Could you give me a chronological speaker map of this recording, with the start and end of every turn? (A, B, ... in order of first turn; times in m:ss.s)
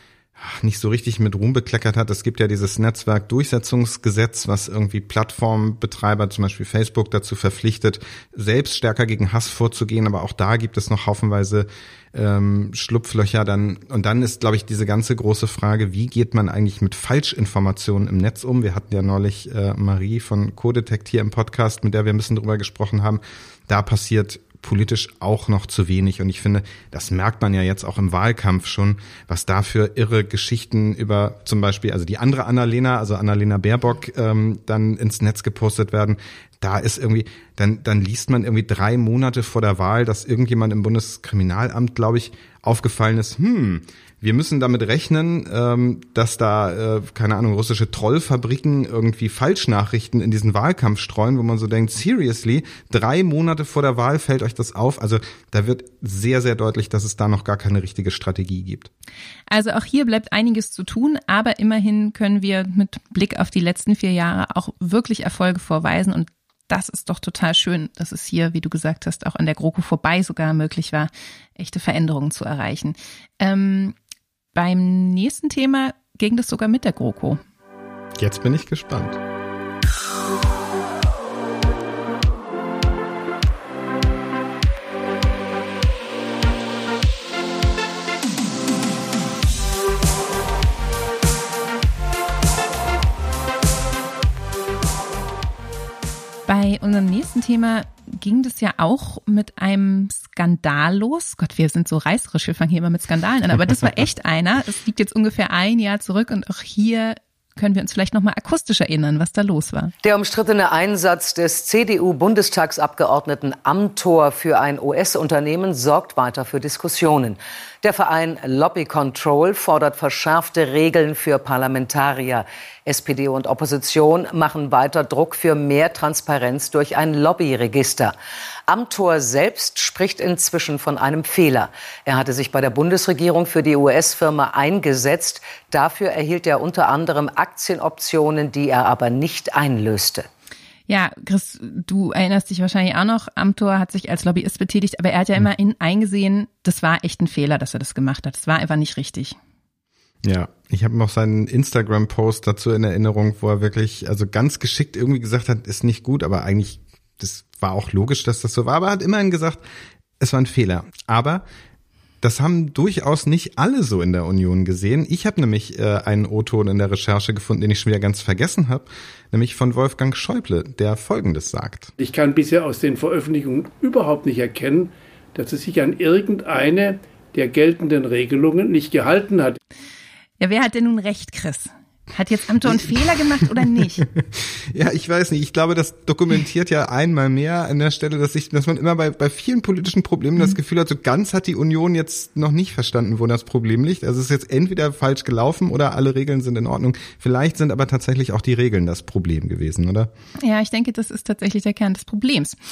0:00.4-0:58.9 A
0:59.5-1:13.9 B
1:14.5-1:17.4 B
1:18.2-1:19.2 A
1:36.5-1:49.9 B
1:50.0-2:08.1 C
2:08.7-2:20.3 C
2:20.9-2:29.4 B
2:30.2-2:39.6 A
2:40.2-2:41.4 A
2:42.2-2:51.9 A
2:52.0-2:59.6 D
3:00.4-3:04.0 B
3:04.0-3:20.1 A
3:20.4-3:22.6 B